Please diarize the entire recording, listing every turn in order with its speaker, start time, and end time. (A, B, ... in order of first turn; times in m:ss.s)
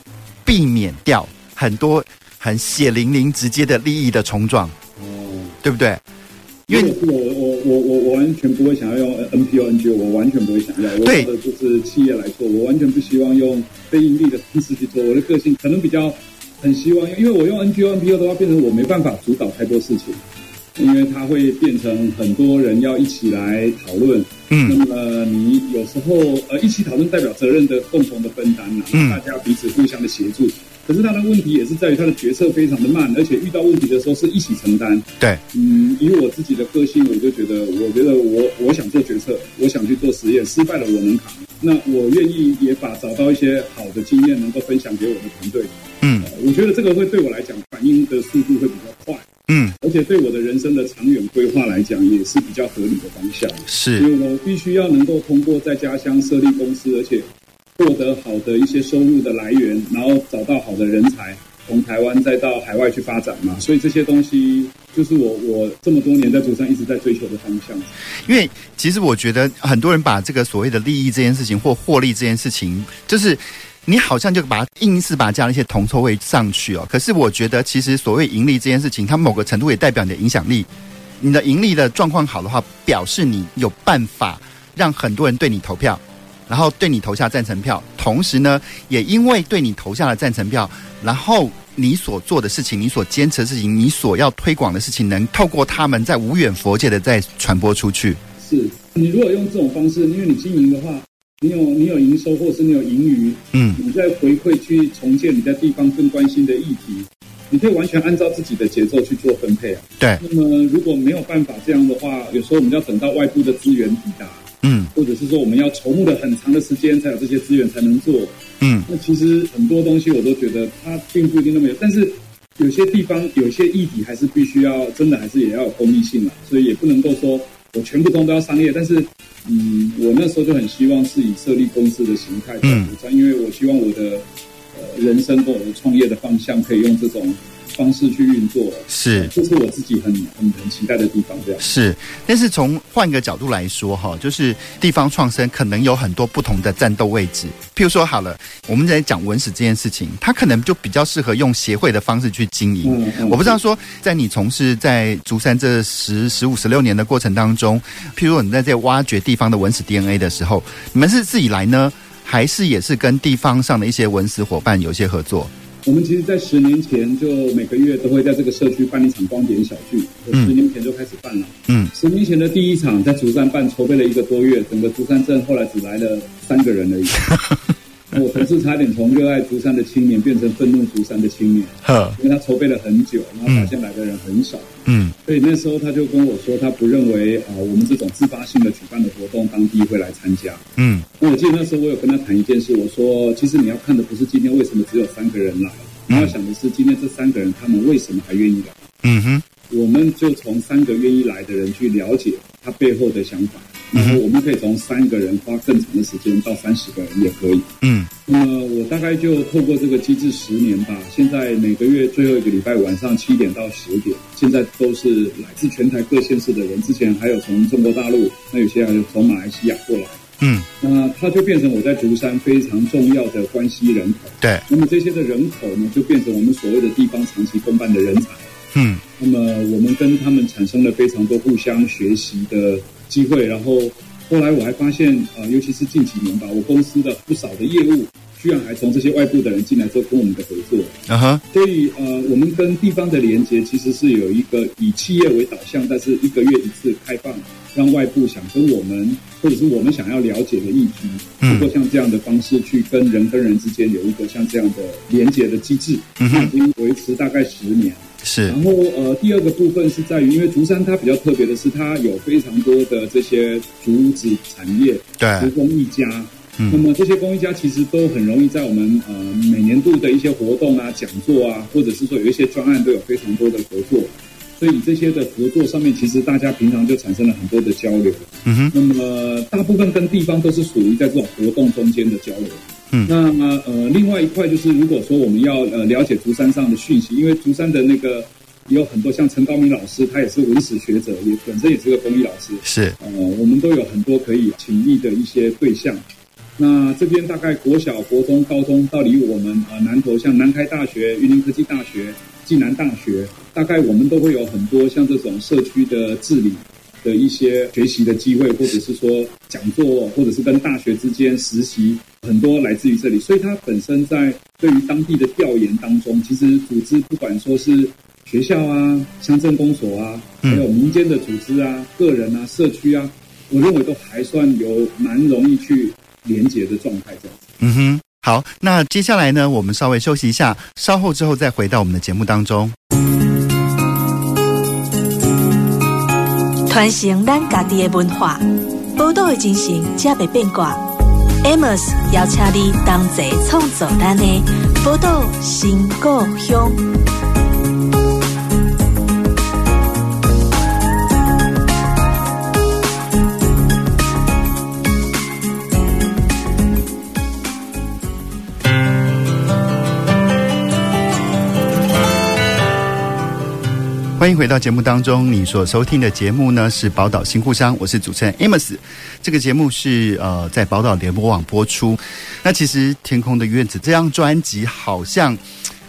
0:00.4-0:04.7 A
0:05.0-0:05.6 B
0:05.6-0:06.0 A
0:06.7-0:07.0 A
0:06.7-0:20.2 B
0:11.0-0:11.3 A
0:20.8-1:07.9 B
0:24.5-0:24.8 A
0:28.9-0:29.2 A
0:46.0-0:46.3 A
0:49.5-0:49.8 A
0:53.7-0:54.0 A
1:08.2-1:20.7 A
1:21.2-1:38.2 A
1:38.4-2:21.6 B
1:43.5-1:43.8 A
1:54.6-1:54.9 A
1:58.6-1:58.9 A
2:12.6-2:12.9 A
2:18.9-2:19.3 A
2:21.6-2:45.5 A
2:32.8-2:33.6 B
2:45.8-2:57.3 B
2:57.2-2:57.6 A
2:58.1-3:10.7 B
3:01.8-3:02.2 A
3:03.5-3:03.7 A
3:04.9-3:05.1 A
3:10.8-3:11.0 A
3:11.2-3:18.9 B
3:19.0-3:19.4 A
3:19.7-3:27.7 B
3:24.0-3:24.2 A
3:27.8-3:28.1 A
3:28.2-3:40.2 B
3:40.4-3:40.7 A
3:40.8-3:48.5 B
3:48.7-3:49.0 A
3:49.2-4:01.0 B
4:01.1-4:01.4 A
4:01.5-4:56.0 B
4:11.4-4:11.7 A
4:16.2-4:16.5 A
4:18.2-4:18.6 A
4:25.2-4:25.5 A
4:26.6-4:26.8 A
4:38.4-4:38.7 A
4:52.6-4:53.0 A
4:56.6-5:27.4 B
5:27.6-5:32.7 A
5:36.7-5:40.8 C
5:41.4-5:46.8 C
6:04.2-6:15.4 A